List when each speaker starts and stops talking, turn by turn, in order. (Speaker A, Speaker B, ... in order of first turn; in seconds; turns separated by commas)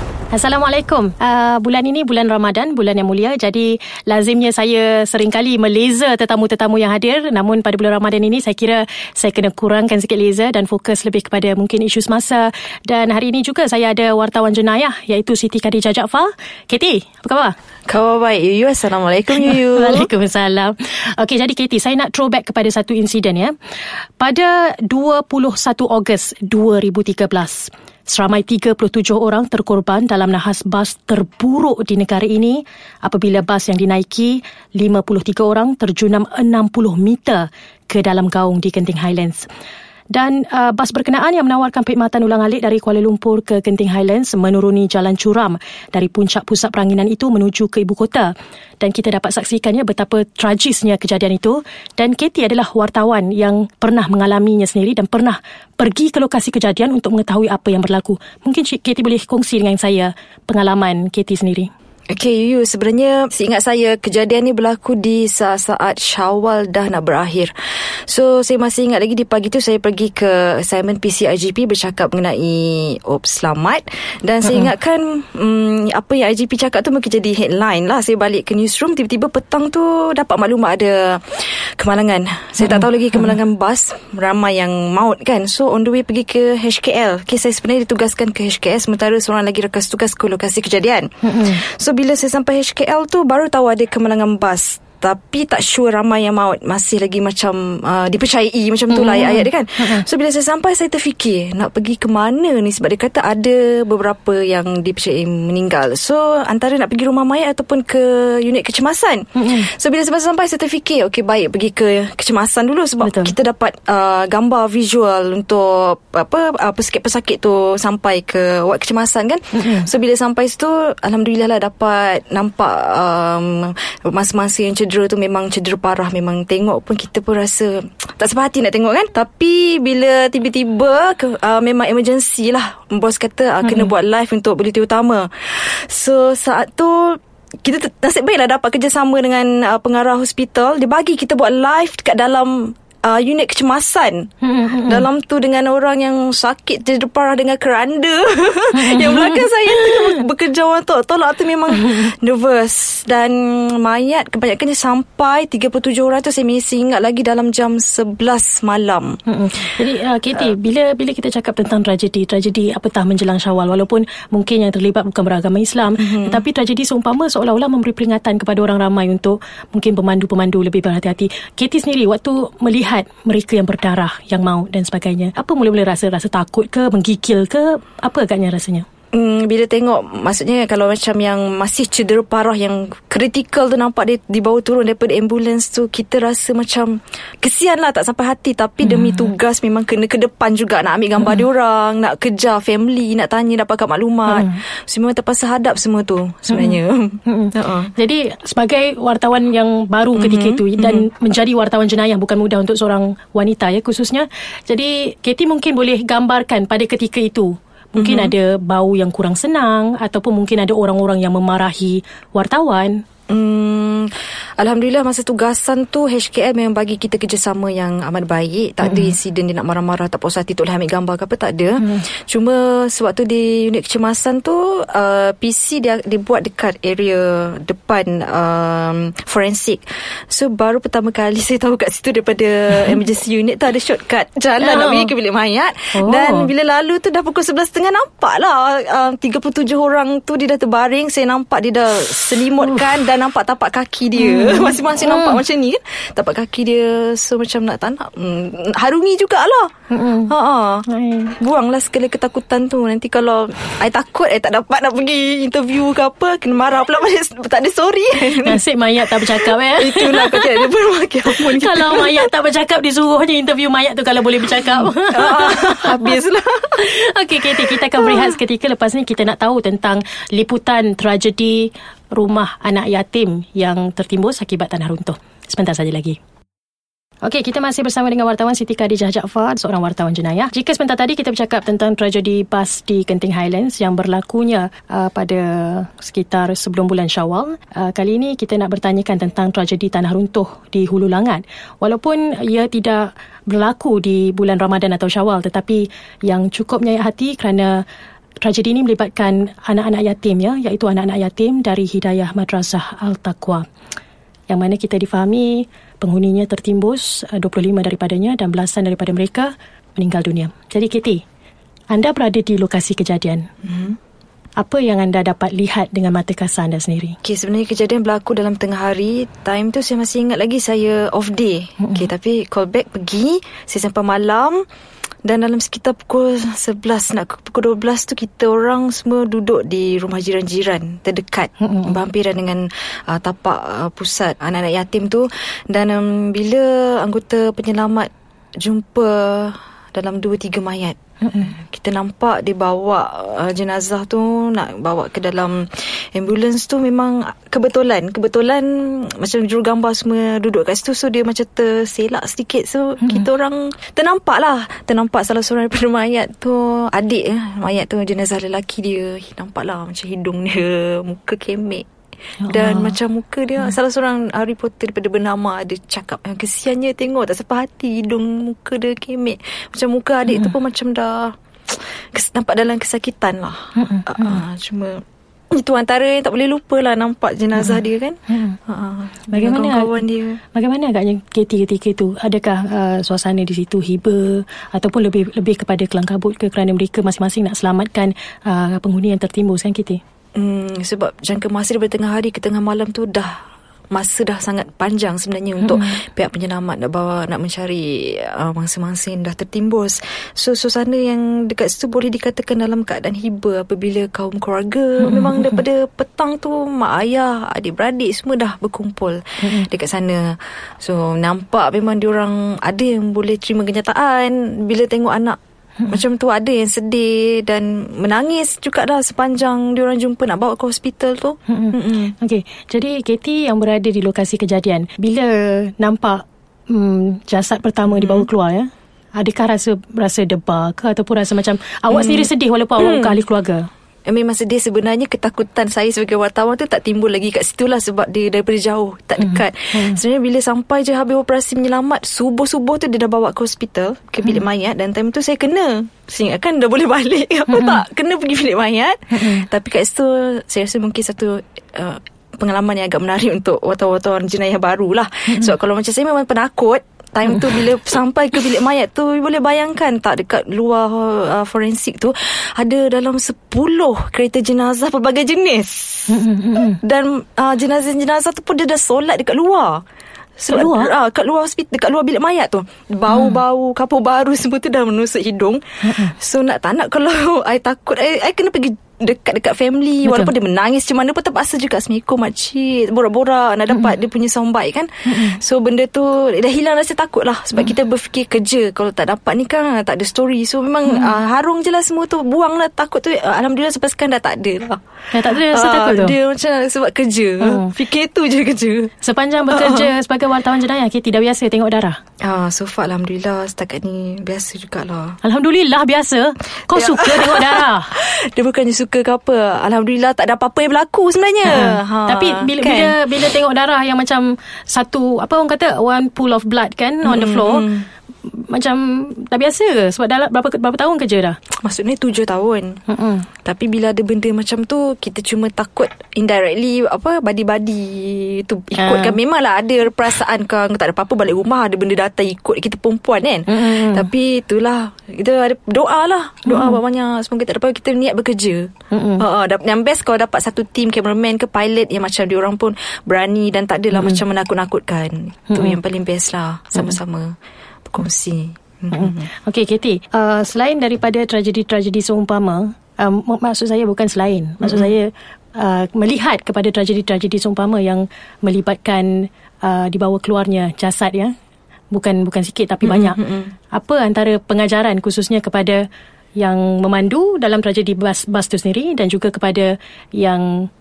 Speaker A: 0.3-17.5, Speaker B: 17.9-20.1, Speaker A: 19.3-23.5, Speaker A: 24.2-39.5, Speaker A: 40.1-61.7, Speaker B: 62.1-67.5, Speaker B: 68.1-144.3, Speaker A: 91.2-91.6, Speaker A: 98.9-100.0, Speaker A: 109.3-109.7, Speaker A: 113.0-113.3, Speaker A: 119.5-119.9, Speaker A: 133.6-133.9, Speaker A: 144.4-145.1, Speaker B: 144.8-159.2, Speaker A: 148.7-150.2, Speaker A: 151.8-152.1, Speaker A: 159.2-178.8, Speaker B: 166.0-166.4, Speaker B: 179.1-197.9, Speaker A: 188.8-189.3, Speaker A: 194.3-194.6, Speaker A: 196.5-213.0, Speaker B: 200.2-201.1, Speaker B: 208.0-208.3, Speaker B: 213.3-249.7, Speaker A: 218.8-219.2, Speaker A: 234.6-235.1, Speaker A: 235.9-236.5, Speaker A: 242.6-242.9, Speaker A: 244.2-245.4, Speaker A: 249.9-250.3, Speaker B: 250.3-250.8, Speaker A: 250.9-251.3, Speaker B: 251.4-262.3, Speaker A: 258.3-260.7, Speaker A: 261.3-266.2, Speaker B: 264.7-266.8, Speaker A: 266.8-276.2, Speaker B: 267.7-268.4, Speaker A: 277.2-297.8, Speaker A: 298.4-303.6, Speaker A: 304.5-311.2, Speaker A: 311.9-313.4, Speaker B: 313.6-314.0, Speaker A: 314.6-317.2, Speaker B: 317.2-324.6, Speaker A: 321.8-322.1, Speaker B: 325.2-338.1, Speaker A: 331.6-331.9, Speaker B: 338.6-361.9, Speaker A: 341.2-341.5, Speaker A: 362.4-363.0, Speaker B: 362.5-380.4, Speaker A: 373.8-374.4, Speaker A: 378.3-378.6, Speaker A: 379.3-379.9, Speaker A: 380.5-390.0, Speaker B: 390.4-393.4, Speaker B: 393.9-415.4, Speaker A: 395.6-396.0, Speaker A: 405.0-405.6, Speaker A: 409.4-409.7, Speaker B: 415.9-422.1, Speaker A: 421.5-433.7, Speaker B: 427.9-428.3, Speaker B: 431.9-433.2, Speaker B: 434.1-466.2, Speaker A: 439.3-440.0, Speaker A: 447.5-447.8, Speaker A: 449.1-449.4, Speaker A: 466.1-466.8, Speaker B: 466.8-469.8, Speaker B: 470.4-498.9, Speaker A: 470.5-470.9, Speaker A: 473.1-473.4, Speaker A: 475.8-476.1, Speaker A: 480.1-480.3, Speaker A: 485.1-485.4, Speaker A: 490.9-491.1, Speaker A: 495.1-496.1, Speaker A: 497.4-497.7, Speaker A: 499.0-502.0, Speaker B: 499.5-499.9, Speaker B: 502.2-505.2, Speaker A: 505.2-507.9, Speaker B: 506.7-513.0, Speaker A: 511.5-517.7, Speaker B: 517.0-517.9, Speaker A: 518.2-521.4, Speaker B: 521.6-522.8, Speaker A: 522.9-523.3, Speaker B: 523.4-547.4, Speaker A: 528.8-529.2, Speaker A: 533.5-534.1, Speaker A: 536.5-536.8, Speaker A: 538.9-539.2, Speaker A: 543.9-544.2, Speaker A: 545.5-545.8, Speaker B: 547.9-549.3, Speaker A: 548.9-561.3, Speaker B: 554.6-554.9, Speaker A: 561.9-563.2, Speaker B: 562.8-563.5, Speaker A: 563.7-565.8, Speaker A: 566.4-570.7